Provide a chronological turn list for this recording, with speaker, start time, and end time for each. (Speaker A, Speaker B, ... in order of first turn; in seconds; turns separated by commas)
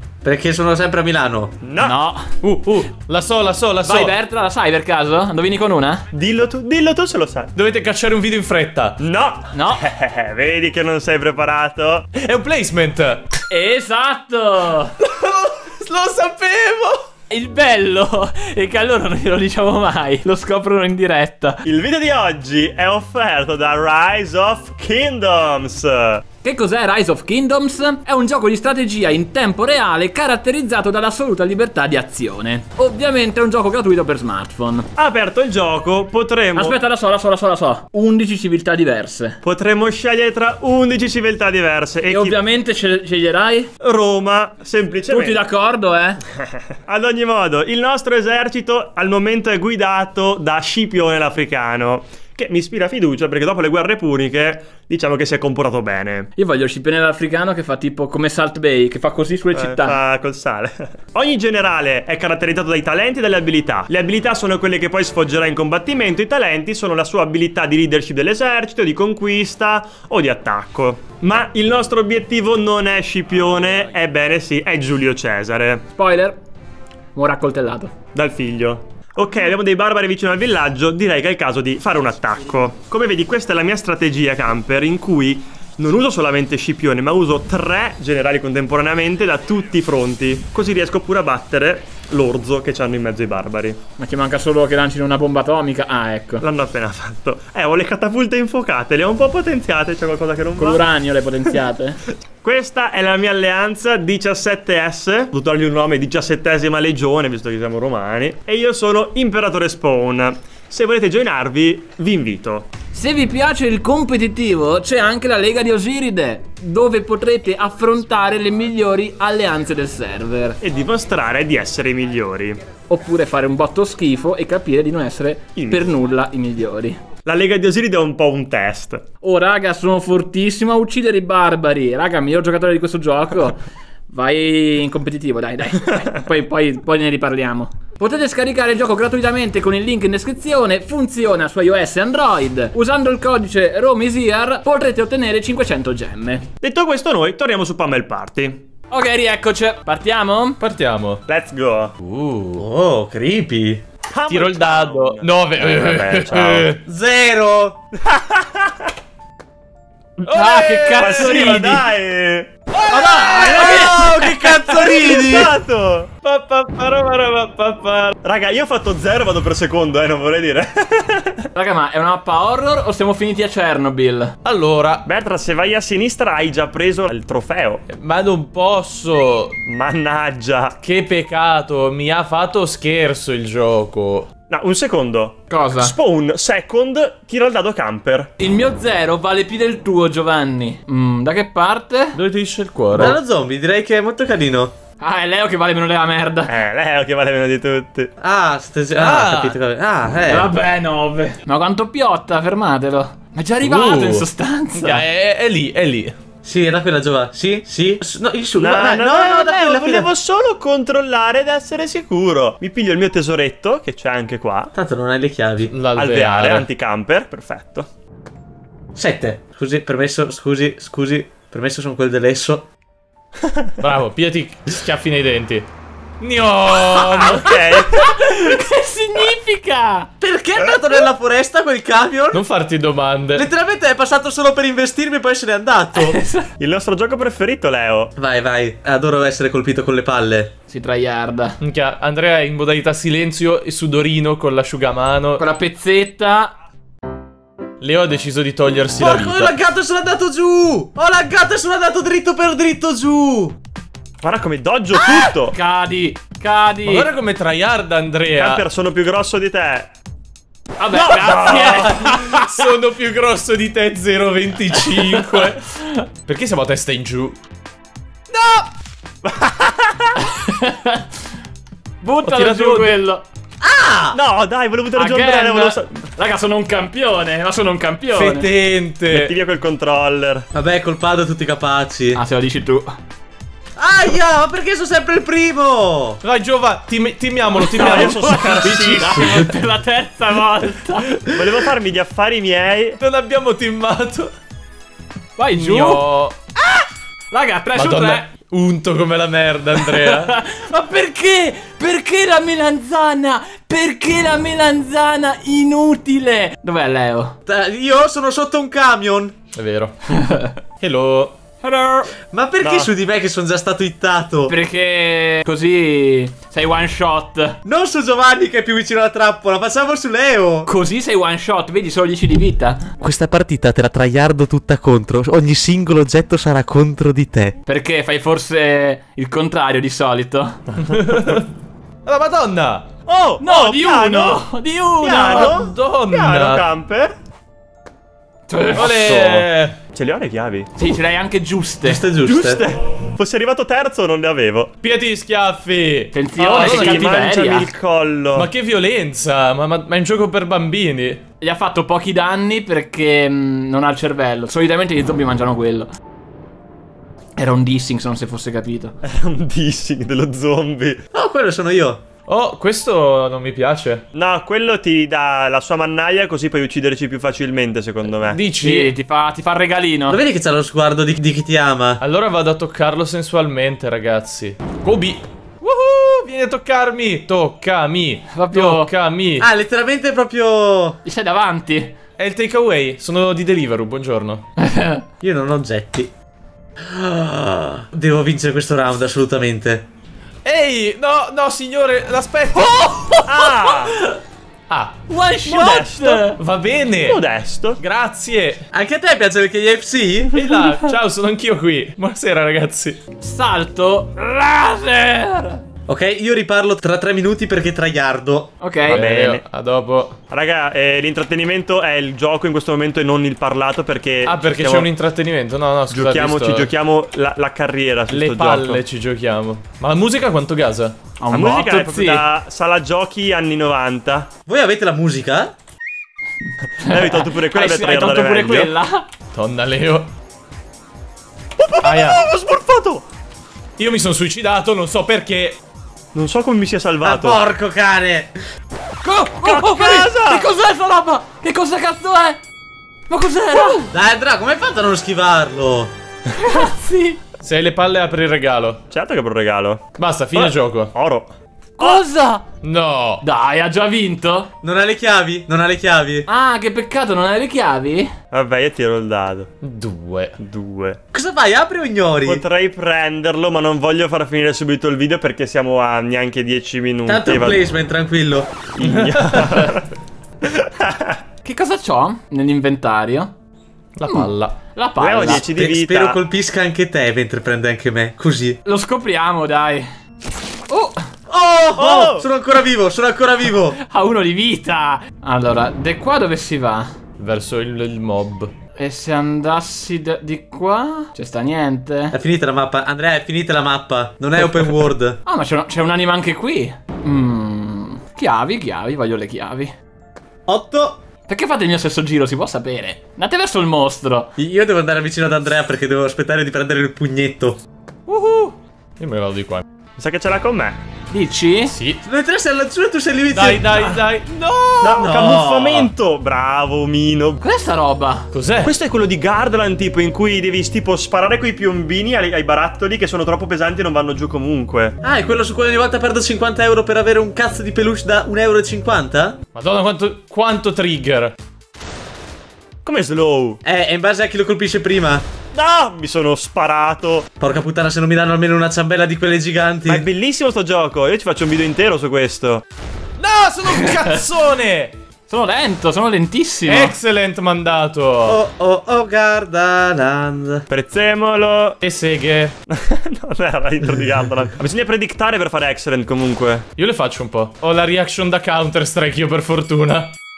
Speaker A: 0.2-1.5, Speaker B: 1.6-1.9, Speaker C: 1.8-2.3, Speaker D: 2.4-4.1, Speaker C: 3.8-6.0, Speaker B: 6.1-7.5, Speaker D: 7.5-9.0, Speaker B: 9.0-12.1, Speaker C: 9.5-9.9, Speaker D: 12.1-13.3, Speaker C: 13.5-14.9, Speaker D: 15.0-17.0, Speaker C: 17.3-21.6, Speaker B: 21.6-26.2, Speaker C: 26.4-34.9, Speaker B: 35.0-36.8, Speaker C: 36.5-39.4, Speaker B: 39.4-42.4, Speaker C: 42.1-43.7, Speaker B: 43.8-45.4, Speaker C: 45.1-46.2, Speaker B: 46.8-56.3, Speaker C: 56.4-60.0, Speaker B: 59.5-75.8, Speaker C: 76.0-76.4, Speaker C: 77.1-77.9, Speaker B: 78.1-93.8, Speaker C: 94.0-96.4, Speaker B: 96.4-100.8, Speaker C: 100.6-102.0, Speaker B: 102.4-112.7, Speaker C: 112.9-120.6, Speaker B: 120.6-122.6, Speaker C: 122.9-127.0, Speaker B: 125.5-125.8, Speaker B: 127.2-129.0, Speaker C: 129.2-146.5, Speaker B: 146.6-148.6, Speaker C: 148.9-150.6, Speaker D: 150.6-151.2, Speaker B: 151.3-151.9, Speaker D: 152.0-152.6, Speaker A: 152.6-153.8, Speaker B: 154.1-156.7, Speaker D: 154.3-156.8, Speaker A: 156.8-157.8, Speaker B: 157.9-158.9, Speaker D: 160.2-161.7, Speaker C: 160.3-161.8, Speaker B: 161.0-162.5, Speaker D: 162.7-164.1, Speaker C: 162.9-164.5, Speaker A: 163.2-165.5, Speaker B: 164.6-166.1, Speaker D: 166.2-168.1, Speaker B: 168.2-171.5, Speaker C: 171.5-174.3, Speaker D: 174.4-175.0, Speaker B: 175.0-177.8, Speaker D: 177.9-179.5, Speaker B: 179.7-180.8, Speaker D: 180.8-184.3, Speaker B: 184.5-188.3, Speaker C: 185.5-185.9, Speaker C: 188.4-192.2, Speaker D: 192.1-193.2, Speaker A: 192.9-194.7, Speaker C: 195.0-196.5, Speaker B: 196.5-198.1, Speaker A: 198.2-200.5, Speaker D: 199.0-199.6, Speaker C: 200.3-205.0, Speaker D: 203.6-204.3, Speaker D: 204.8-206.1, Speaker A: 206.4-210.1, Speaker B: 208.6-214.7, Speaker A: 214.7-215.7, Speaker D: 215.7-216.7, Speaker B: 215.9-217.9, Speaker A: 218.9-222.7, Speaker B: 223.4-223.7, Speaker D: 223.8-225.7, Speaker D: 226.2-227.6, Speaker B: 226.9-228.5, Speaker C: 227.8-230.1, Speaker A: 230.2-232.4, Speaker D: 232.3-233.5, Speaker A: 233.3-236.2, Speaker C: 235.9-236.5, Speaker B: 236.6-238.1, Speaker A: 238.2-240.5, Speaker C: 240.7-241.6, Speaker D: 241.6-245.4, Speaker C: 245.4-246.5, Speaker D: 247.8-249.5, Speaker A: 249.0-253.6, Speaker B: 254.2-255.6, Speaker A: 255.0-255.2, Speaker C: 255.5-257.1, Speaker D: 256.9-258.6, Speaker B: 258.3-259.9, Speaker C: 260.8-262.6, Speaker B: 260.9-262.1, Speaker D: 261.6-267.4, Speaker C: 264.9-266.0, Speaker A: 268.3-268.6, Speaker B: 269.2-270.2, Speaker C: 270.2-271.1, Speaker C: 272.0-273.2, Speaker D: 272.2-272.9, Speaker A: 273.6-274.2, Speaker B: 274.1-276.0, Speaker C: 274.9-278.5, Speaker D: 278.1-279.3, Speaker B: 279.1-280.4, Speaker A: 280.5-282.2, Speaker C: 282.1-282.9, Speaker A: 283.8-286.2, Speaker D: 286.2-289.5, Speaker C: 287.6-291.1, Speaker B: 287.7-289.5, Speaker D: 291.0-291.4, Speaker B: 291.2-293.0, Speaker D: 293.0-294.3, Speaker C: 295.4-296.0, Speaker D: 295.6-296.4, Speaker C: 296.6-298.3, Speaker D: 297.7-300.4, Speaker C: 299.8-307.4, Speaker A: 307.4-309.4, Speaker D: 309.5-311.4, Speaker C: 310.1-310.5, Speaker B: 311.6-312.9, Speaker A: 312.3-314.5, Speaker C: 314.5-317.6, Speaker A: 317.6-320.7, Speaker C: 320.7-322.9, Speaker A: 323.0-327.5, Speaker C: 327.6-330.6, Speaker D: 330.8-331.4, Speaker D: 332.1-332.9, Speaker B: 333.1-334.4, Speaker C: 333.4-335.5, Speaker B: 335.0-337.1, Speaker D: 335.2-336.6, Speaker C: 338.5-339.4, Speaker D: 338.7-339.8, Speaker B: 339.9-340.7, Speaker C: 340.8-342.0, Speaker A: 341.8-342.6, Speaker B: 342.2-344.7, Speaker D: 344.8-347.1, Speaker C: 346.1-347.7, Speaker B: 346.4-348.5, Speaker D: 348.4-351.2, Speaker C: 351.4-355.9, Speaker C: 357.4-358.9, Speaker B: 359.0-361.0, Speaker A: 361.1-362.0, Speaker D: 362.3-364.0, Speaker B: 364.1-368.4, Speaker D: 368.2-368.9, Speaker C: 368.6-370.2, Speaker A: 370.1-372.0, Speaker D: 372.0-379.5, Speaker C: 378.3-378.9, Speaker A: 379.4-381.0, Speaker C: 381.0-381.9, Speaker D: 382.2-384.5, Speaker C: 384.6-385.0, Speaker A: 385.2-386.1, Speaker A: 386.8-389.8, Speaker D: 390.4-392.8, Speaker C: 392.5-394.2, Speaker B: 393.2-394.0, Speaker D: 394.7-395.0, Speaker C: 395.1-396.4, Speaker B: 395.4-396.2, Speaker D: 396.4-397.2, Speaker B: 397.0-397.8, Speaker D: 397.8-398.6, Speaker A: 398.7-400.3, Speaker D: 400.3-403.0, Speaker C: 403.2-405.6, Speaker A: 405.9-408.5, Speaker C: 408.6-409.0, Speaker B: 408.8-409.4, Speaker D: 408.8-410.2, Speaker B: 410.3-414.9, Speaker D: 414.2-416.7, Speaker B: 415.9-418.8, Speaker D: 418.1-421.0, Speaker C: 421.2-422.2, Speaker B: 421.3-424.3, Speaker A: 424.5-425.5, Speaker B: 426.8-428.7, Speaker C: 426.8-429.1, Speaker D: 429.3-430.1, Speaker B: 431.6-433.0, Speaker D: 431.8-432.2, Speaker D: 433.8-435.6, Speaker B: 436.1-437.4, Speaker A: 437.0-438.4, Speaker C: 439.0-442.4, Speaker B: 439.4-440.4, Speaker C: 443.1-443.9, Speaker A: 443.9-445.9, Speaker C: 446.4-447.2, Speaker D: 447.4-448.8, Speaker B: 448.9-452.0, Speaker D: 450.0-450.9, Speaker C: 451.8-452.4, Speaker D: 452.6-453.2, Speaker C: 453.2-454.5, Speaker A: 454.6-456.3, Speaker C: 456.3-458.1, Speaker B: 458.3-459.5, Speaker D: 459.6-460.3, Speaker B: 460.4-461.0, Speaker A: 461.1-462.4, Speaker B: 462.2-467.6, Speaker A: 467.1-468.7, Speaker B: 468.8-469.9, Speaker D: 468.8-469.7, Speaker B: 470.4-471.2, Speaker C: 471.4-473.3, Speaker D: 473.9-474.6, Speaker C: 474.1-475.4, Speaker B: 475.0-476.2, Speaker A: 475.2-478.6, Speaker C: 478.6-479.9, Speaker C: 480.7-481.0, Speaker A: 481.3-483.8, Speaker B: 481.8-482.2, Speaker C: 483.8-486.9, Speaker D: 487.2-488.5, Speaker C: 488.8-492.1, Speaker A: 492.1-495.2, Speaker C: 495.2-499.7, Speaker A: 500.5-501.0, Speaker C: 501.3-504.3, Speaker A: 504.4-507.6, Speaker D: 508.1-509.6, Speaker B: 510.0-510.8, Speaker C: 511.1-511.7, Speaker D: 511.7-512.0, Speaker A: 512.0-513.9, Speaker D: 513.3-515.2, Speaker B: 514.8-517.4, Speaker A: 515.0-515.9, Speaker C: 517.4-518.3, Speaker D: 518.3-518.7, Speaker B: 518.6-525.0, Speaker A: 525.0-529.4, Speaker D: 529.5-531.3, Speaker B: 532.8-533.6, Speaker A: 533.6-535.2, Speaker B: 535.5-537.3, Speaker A: 537.4-540.0, Speaker B: 539.9-542.6, Speaker D: 543.2-544.9, Speaker C: 545.3-547.0, Speaker D: 546.6-548.4, Speaker A: 548.2-550.6, Speaker B: 550.7-551.8, Speaker D: 551.8-552.5, Speaker B: 552.7-556.6, Speaker D: 556.8-560.1